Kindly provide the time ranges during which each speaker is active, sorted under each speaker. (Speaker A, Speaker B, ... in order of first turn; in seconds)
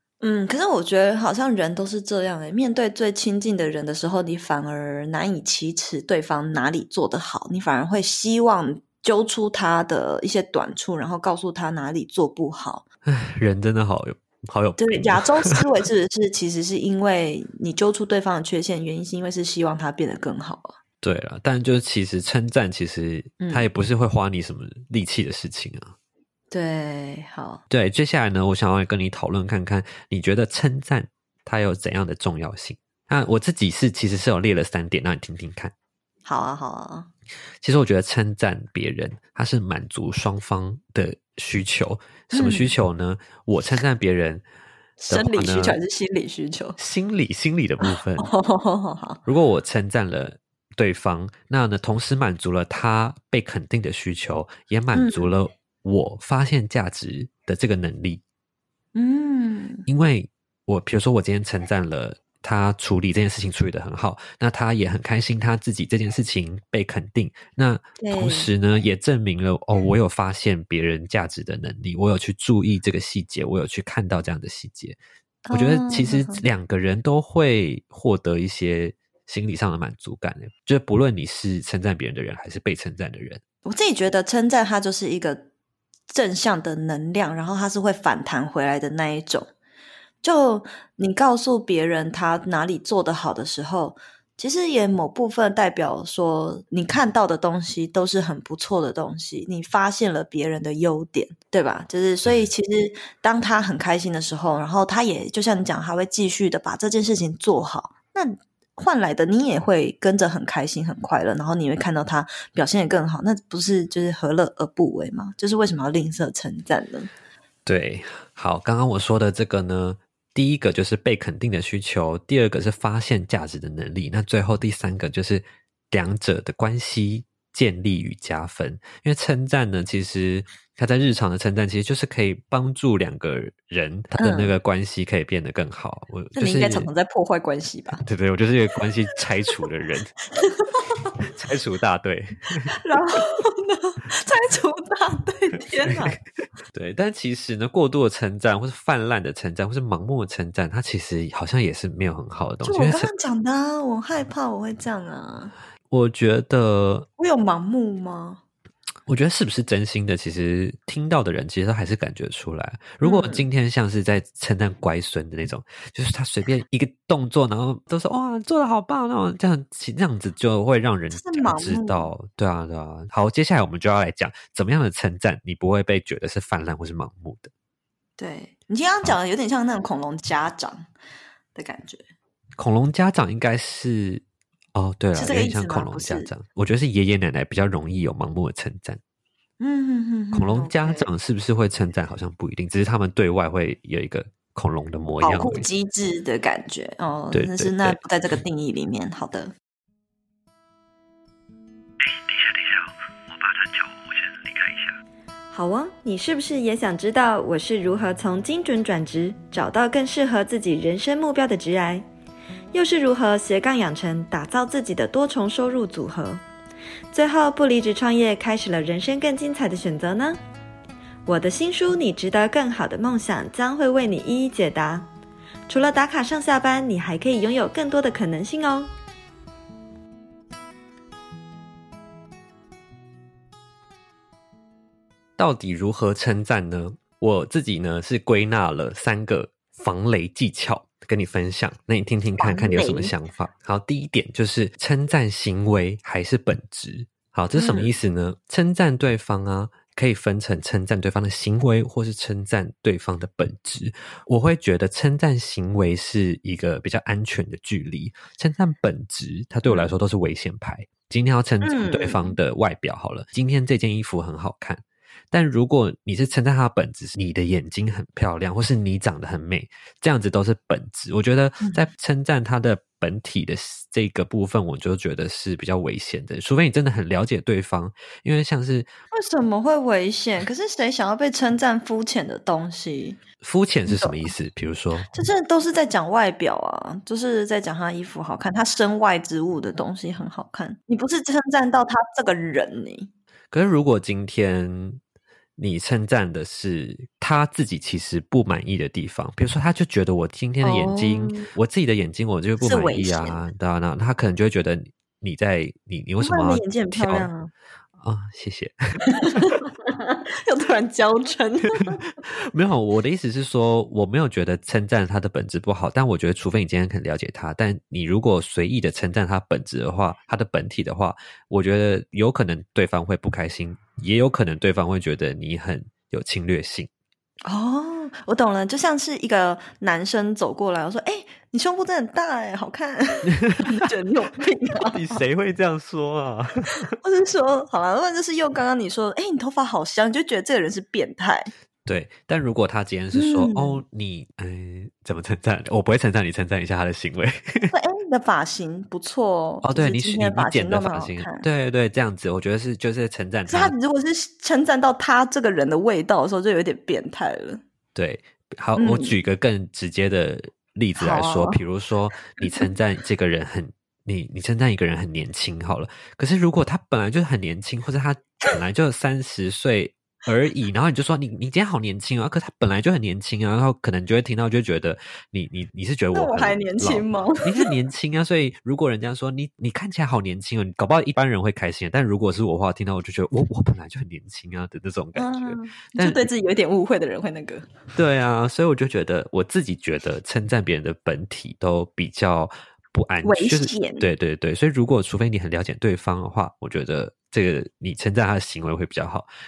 Speaker A: 0.2-12.8, 14.8-20.8, 23.4-23.7, 26.5-27.6, 36.3-37.1, 42.3-42.8, 45.0-46.8, 47.8-49.2, 54.9-55.3, 59.0-59.9, 68.0-68.5, 75.5-76.4, 83.7-85.5, 86.1-89.5, 90.2-117.1, 134.2-134.5, 136.4-138.0, 140.4-141.2, 142.7-146.2, 152.6-155.5, 157.2-158.4, 163.0-163.5, 171.1-172.1, 178.2-180.9, 181.6-182.0, 185.2-186.3, 189.6-191.1, 195.2-199.5, 242.4-243.1, 247.5-247.9, 259.7-259.9, 261.6-262.4, 271.6-271.9, 279.1-283.2, 283.9-284.3, 285.1-293.1, 300.6-301.5, 302.6-303.4, 306.2-307.5, 309.1-312.1, 327.5-335.2, 337.0-341.5, 343.1-343.8, 347.7-351.5, 353.5-357.6, 358.8-359.2, 361.0-361.6, 362.4-362.7, 376.1-377.7, 385.2-387.7, 393.2-394.1
Speaker B: 13.1-15.6, 21.0-25.9, 27.7-35.7, 37.6-44.4, 45.1-45.8, 46.8-48.3, 49.3-58.2, 59.9-75.0, 75.5-83.4, 117.7-136.9, 138.0-140.1, 141.3-142.7, 145.9-146.2, 146.7-153.1, 155.9-157.1, 159.1-177.5, 182.6-184.2, 184.8-189.0, 190.3-195.7, 197.3-198.0, 202.0-204.9, 235.4-278.9, 283.4-285.1, 293.5-295.0, 295.6-307.3, 308.0-309.6, 312.3-326.9, 333.3-333.8, 334.8-336.9, 341.9-347.7, 349.6-353.8, 357.9-386.3, 387.9-399.3
Speaker C: 205.5-212.1, 212.7-216.4, 217.1-220.4, 221.3-225.1, 225.7-228.9